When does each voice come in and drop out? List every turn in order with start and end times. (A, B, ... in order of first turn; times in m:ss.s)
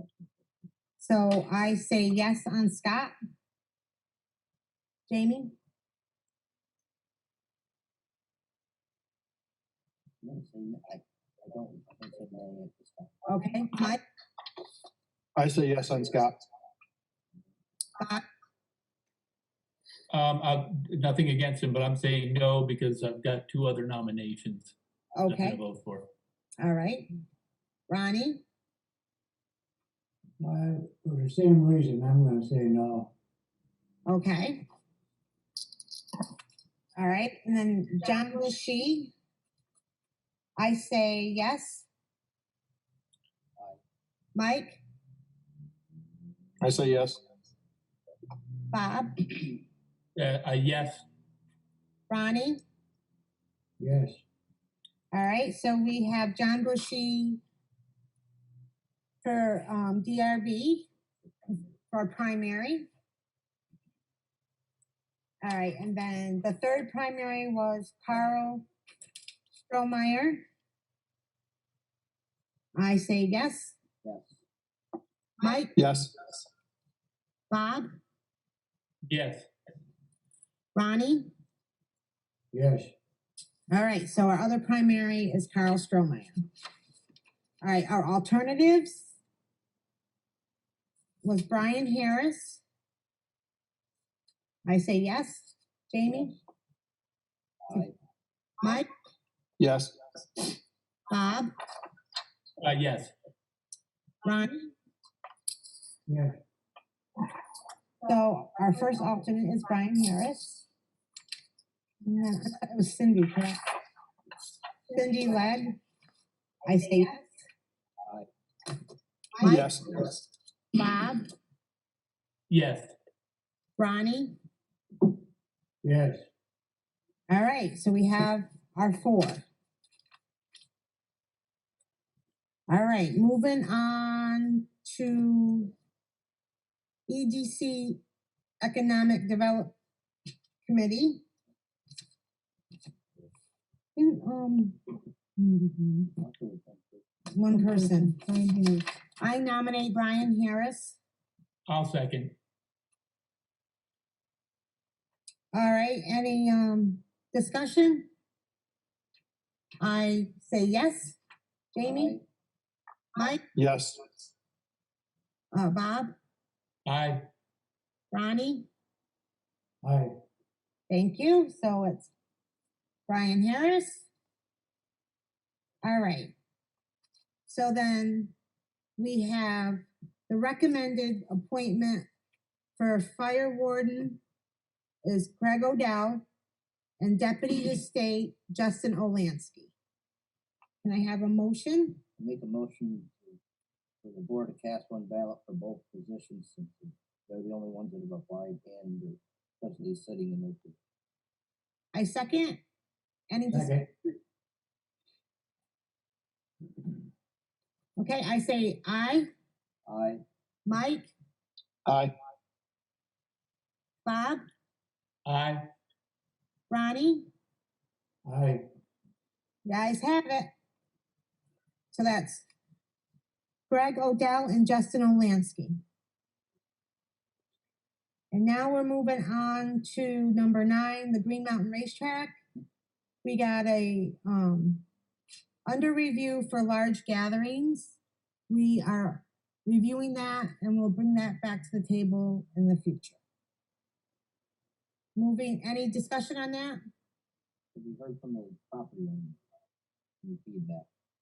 0:01.0-0:03.1 A
0:05.1-0:05.5 A
0:10.2-0:13.2 B
0:13.3-0:14.0 A
0:15.4-0:16.3 C
0:20.1-0:24.7 D
0:25.1-0:25.6 A
0:25.2-0:26.1 D
0:26.6-0:27.1 A
0:27.9-0:28.4 A
0:30.4-0:33.1 E
0:34.0-0:34.6 A
0:37.0-0:39.1 A
0:40.6-0:41.9 A
0:44.3-0:44.8 A
0:46.6-0:47.2 C
0:48.7-0:49.1 A
0:50.2-0:51.0 D
0:52.1-0:52.6 A
0:53.8-0:54.2 E
0:55.1-0:57.4 A
0:59.2-1:00.9 A
1:01.9-1:02.9 A
1:05.4-1:08.6 A
1:09.6-1:10.4 A
1:12.7-1:13.8 A
1:14.0-1:14.4 B
1:15.4-1:15.7 A
1:15.8-1:16.1 C
1:17.5-1:17.9 A
1:19.1-1:19.4 D
1:20.7-1:21.3 A
1:22.5-1:22.9 E
1:23.7-1:26.3 A
1:27.6-1:29.1 A
1:31.2-1:32.6 A
1:34.6-1:36.4 A
1:37.7-1:37.9 B
1:39.6-1:39.9 C
1:41.1-1:41.5 A
1:42.6-1:43.1 D
1:44.2-1:44.7 A
1:46.1-1:46.3 E
1:48.0-1:50.6 A
1:52.0-1:53.6 A
1:54.9-1:55.7 A
1:56.6-1:57.2 A
1:59.4-1:59.7 A
1:59.4-1:59.8 C
2:00.7-2:01.3 A
2:02.5-2:02.9 D
2:03.8-2:04.3 A
2:05.8-2:06.2 E
2:07.3-2:09.4 A
2:12.7-2:15.7 A
2:17.1-2:18.0 A
2:18.6-2:19.7 A
2:20.6-2:21.2 A
2:24.0-2:24.8 A
2:25.4-2:26.1 A
2:26.2-2:27.0 B
2:27.3-2:28.2 A
2:28.2-2:28.8 E
2:29.2-2:31.0 A
2:31.7-2:32.3 D
2:35.5-2:38.1 A
2:39.8-2:41.2 A
2:41.7-2:42.2 A
2:41.8-2:42.2 B
2:43.6-2:44.0 C
2:45.5-2:46.1 A
2:46.8-2:47.2 D
2:48.1-2:48.7 A
2:49.8-2:50.1 E
2:50.9-2:52.1 A
2:53.1-2:54.0 A
2:55.8-2:56.3 A
2:57.5-2:58.3 A
2:59.0-3:02.0 A
3:02.8-3:04.2 A
3:05.0-3:06.2 A
3:07.0-3:09.7 A
3:10.8-3:12.0 A
3:12.2-3:13.4 B
3:14.0-3:20.8 B
3:21.9-3:22.6 A
3:23.3-3:23.8 A
3:23.5-3:23.9 E
3:28.0-3:29.3 A
3:29.8-3:30.2 B
3:30.6-3:31.1 A
3:31.8-3:32.1 C
3:34.0-3:34.4 A
3:35.2-3:35.6 D
3:36.7-3:37.3 A
3:38.2-3:38.6 E
3:39.6-3:40.5 A
3:41.9-3:42.4 A
3:43.7-3:45.8 A
3:48.3-3:52.4 A
3:53.2-3:54.8 A
3:55.6-3:58.0 A
3:58.5-4:03.2 A
4:05.2-4:06.8 A
4:07.7-4:09.6 B
4:10.2-4:10.9 B